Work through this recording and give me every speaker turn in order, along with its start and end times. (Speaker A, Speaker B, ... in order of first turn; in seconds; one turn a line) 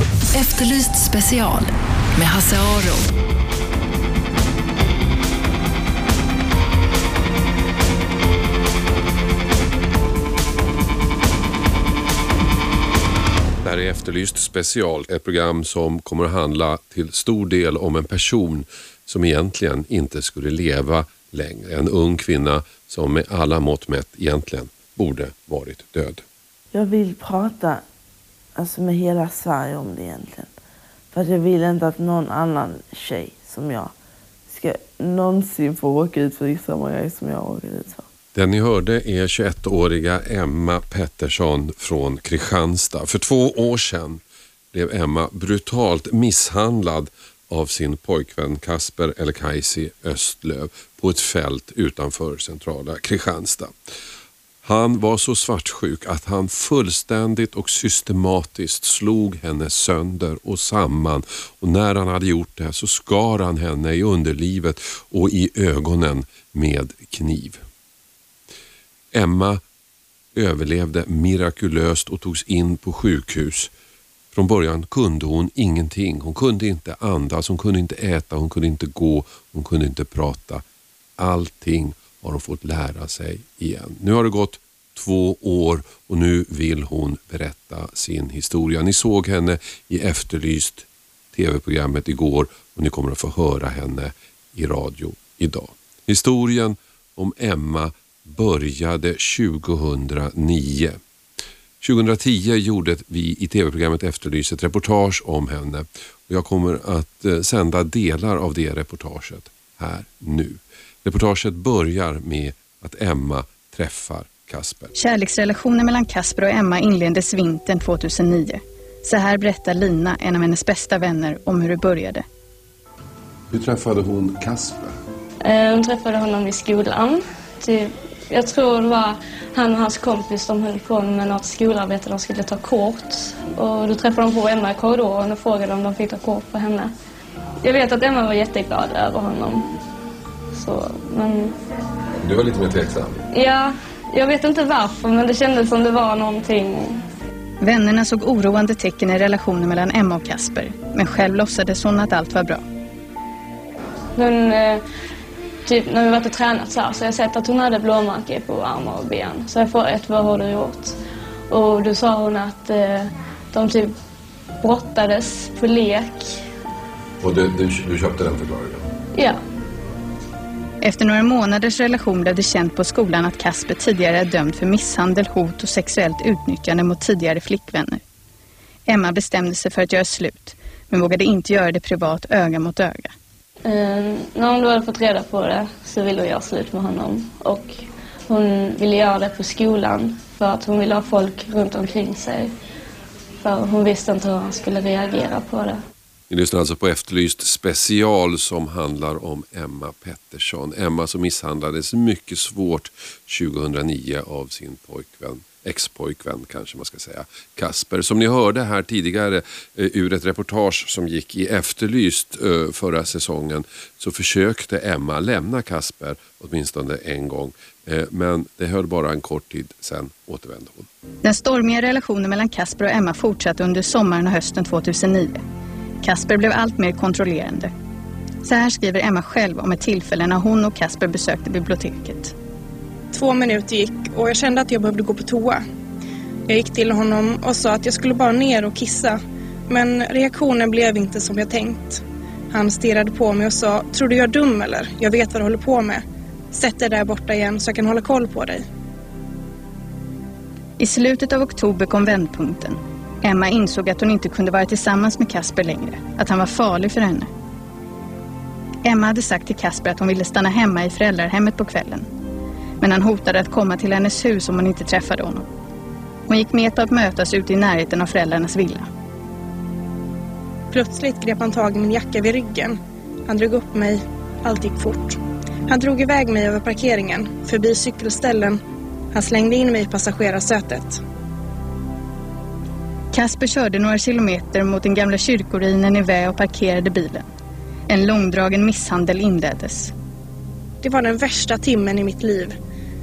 Speaker A: 0.3-3.1
Speaker B: 13.6-26.2
Speaker C: 26.7-27.8
Speaker C: 28.6-30.5
Speaker C: 31.1-33.9
Speaker C: 34.5-38.0
Speaker B: 38.3-44.2
Speaker B: 44.7-53.7
Speaker B: 54.6-67.6
Speaker B: 69.1-69.6
Speaker B: 70.3-73.7
Speaker B: 74.3-80.6
Speaker B: 81.2-101.0
Speaker B: 101.8-114.9
Speaker D: 115.0-122.2
Speaker B: 123.5-124.9
Speaker E: 125.4-136.9
Speaker E: 137.6-139.7
Speaker E: 140.5-141.5
Speaker B: 142.2-143.2
Speaker E: 143.3-147.0
Speaker D: 147.6-152.6
Speaker E: 154.1-154.8
Speaker E: 155.6-161.0
Speaker E: 161.5-163.9
Speaker E: 164.6-166.4
Speaker B: 167.2-168.8
Speaker E: 169.1-169.4
Speaker D: 170.8-178.0
Speaker D: 178.9-183.1
Speaker E: 183.6-192.5
Speaker E: 193.4-195.8
Speaker B: 196.3-220.9
Speaker D: 221.2-225.4
Speaker D: 226.0-227.7
Speaker D: 228.4-232.3
Speaker F: 233.1-235.6
Speaker F: 236.5-248.6
Speaker D: 250.8-257.3
Speaker D: 258.8-262.1
Speaker D: 262.8-265.4
Speaker D: 266.3-268.9
Speaker F: 270.7-278.6
Speaker F: 279.1-281.0
Speaker D: 283.1-287.2
Speaker D: 287.9-289.9
Speaker F: 290.8-292.6